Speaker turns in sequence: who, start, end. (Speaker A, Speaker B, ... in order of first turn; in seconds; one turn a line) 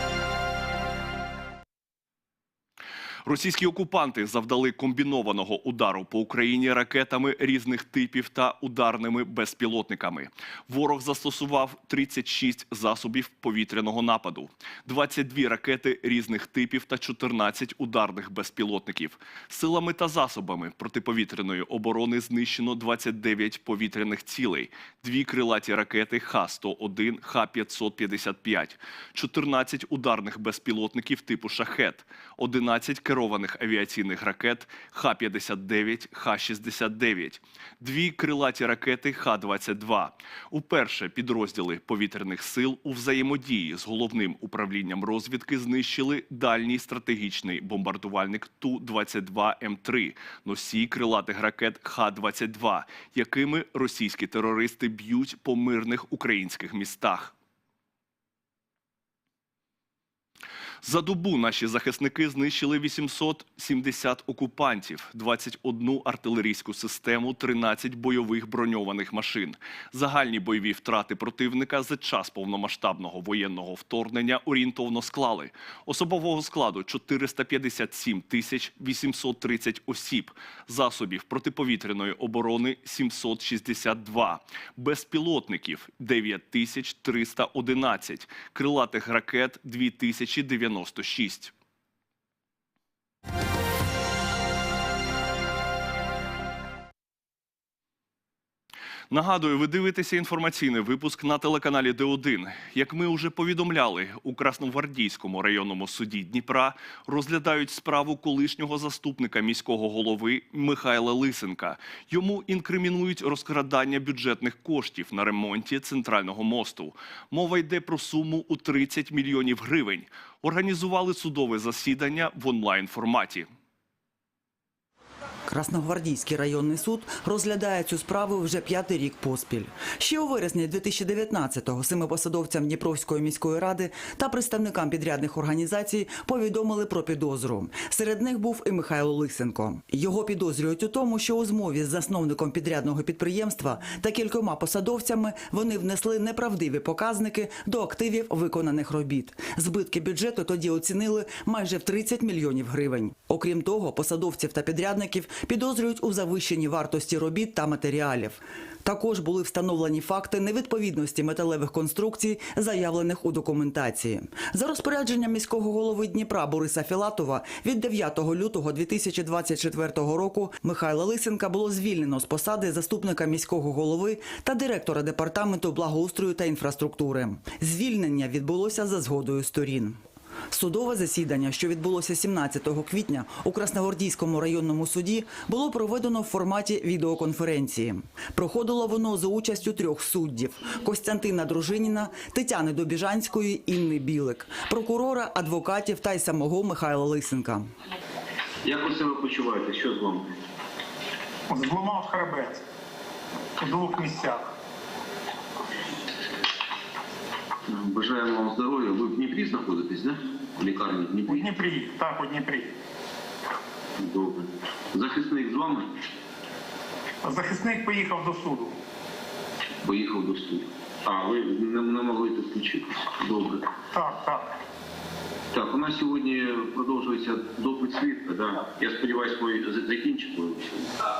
Speaker A: 3.2-57.3
Speaker A: 60.8-91.5
Speaker A: 99.1-123.5
Speaker B: 125.5-180.0
Speaker B: 180.5-197.7
Speaker C: 198.6-200.3
Speaker D: 201.5-202.6
Speaker D: 203.6-204.4
Speaker C: 207.7-211.5
Speaker D: 211.3-212.7
Speaker C: 214.0-215.9
Speaker D: 217.2-218.7
Speaker C: 219.8-223.7
Speaker D: 223.9-224.4
Speaker C: 225.5-230.9